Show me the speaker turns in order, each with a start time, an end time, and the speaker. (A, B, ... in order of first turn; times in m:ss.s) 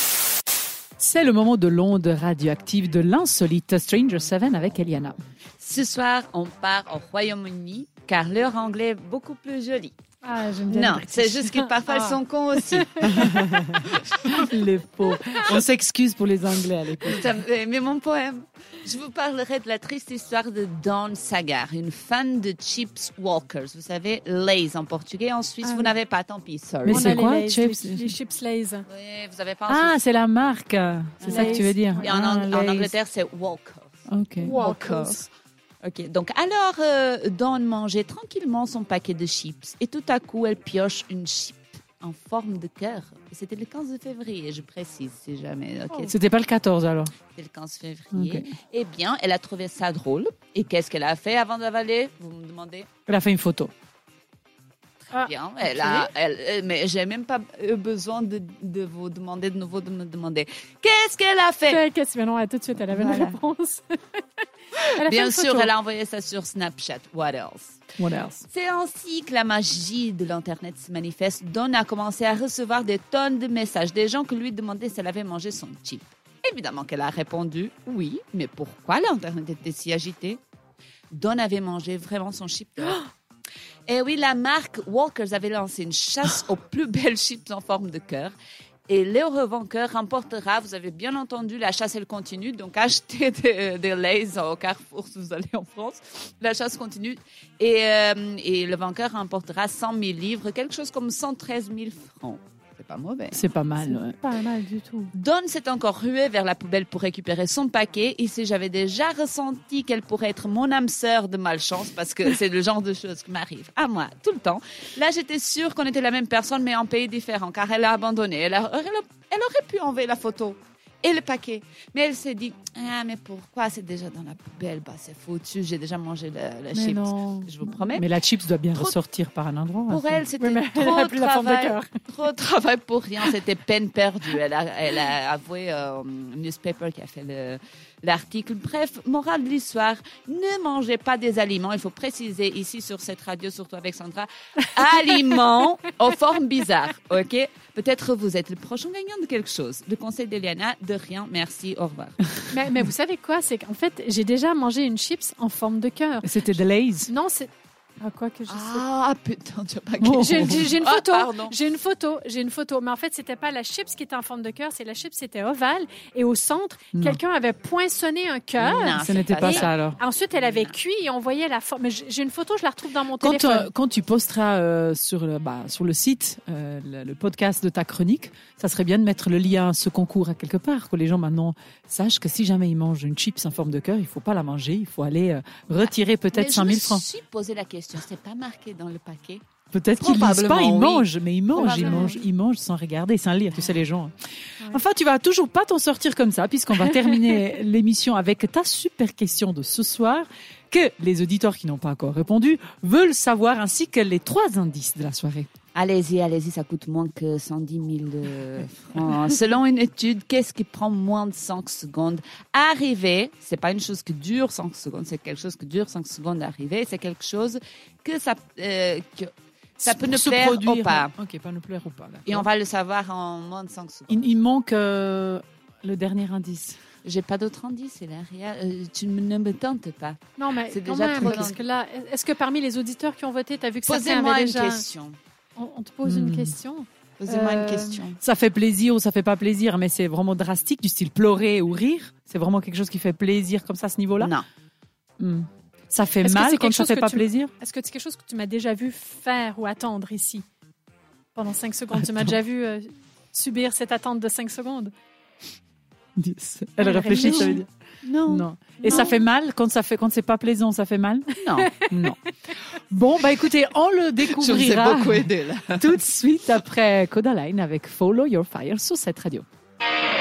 0:01.0-0:05.2 A
0:05.6-0:09.9 B
0:10.2-0:13.7 C
0:10.7-0:14.4 B
0:13.2-0:17.3 A
0:17.0-0:27.2 B
0:25.6-0:25.9 C
0:26.8-0:28.1 A
0:26.9-0:28.8 C
0:28.9-0:30.0 B
0:29.7-0:32.9 A
0:31.2-0:34.0 B
0:31.3-0:32.5 C
0:34.1-0:34.6 A
0:34.4-0:35.2 C
0:34.6-0:35.3 B
0:35.8-0:46.1 B
0:46.1-0:47.1 A
0:47.3-0:52.9 B
0:48.1-0:48.5 A
0:53.1-0:53.7 A
0:55.1-0:56.1 C
0:55.2-1:01.8 B
1:01.7-1:05.7 C
1:02.9-1:03.4 B
1:04.8-1:07.8 B
1:08.0-1:08.4 A
1:08.4-1:20.4 B
1:21.1-1:23.1 B
1:23.9-1:28.3 B
1:28.9-1:43.4 B
1:43.3-1:44.2 A
1:43.8-1:45.1 C
1:45.1-2:08.1 B
2:06.7-2:07.7 C
2:07.9-2:10.2 A
2:08.7-2:09.0 B
2:09.9-2:32.2 B
2:10.4-2:12.0 C
2:32.5-2:38.8 C
2:36.2-2:37.1 A
2:38.5-2:41.6 B
2:40.0-2:40.7 A
2:40.2-2:53.7 C
2:46.9-2:47.2 A
2:48.6-2:49.7 B
2:49.0-2:50.0 A
2:50.3-2:50.8 B
2:53.2-3:07.0 A
3:05.8-3:09.4 B
3:09.7-3:14.1 A
3:10.0-3:11.1 B
3:11.5-3:12.2 C
3:11.6-3:12.1 B
3:14.7-3:25.5 A
3:25.7-3:41.1 B
3:39.8-3:42.5 A
3:42.2-3:44.3 B
3:44.1-3:46.8 A
3:47.0-3:51.6 B
3:50.4-3:54.8 C
3:51.2-3:51.5 A
3:53.8-3:55.2 B
3:55.6-3:58.0 C
3:56.0-3:56.6 A
3:57.2-3:58.2 B
3:58.2-4:04.3 A
4:04.2-4:04.4 B
4:05.2-4:07.5 A
4:06.2-4:10.4 C
4:11.3-4:14.9 C
4:16.2-4:17.7 A
4:16.8-4:17.6 C
4:17.1-4:19.2 B
4:18.2-4:22.2 A
4:18.8-4:19.2 C
4:21.4-4:21.8 B
4:21.5-4:21.9 C
4:22.7-4:25.2 A
4:24.3-4:25.9 B
4:25.8-4:29.4 A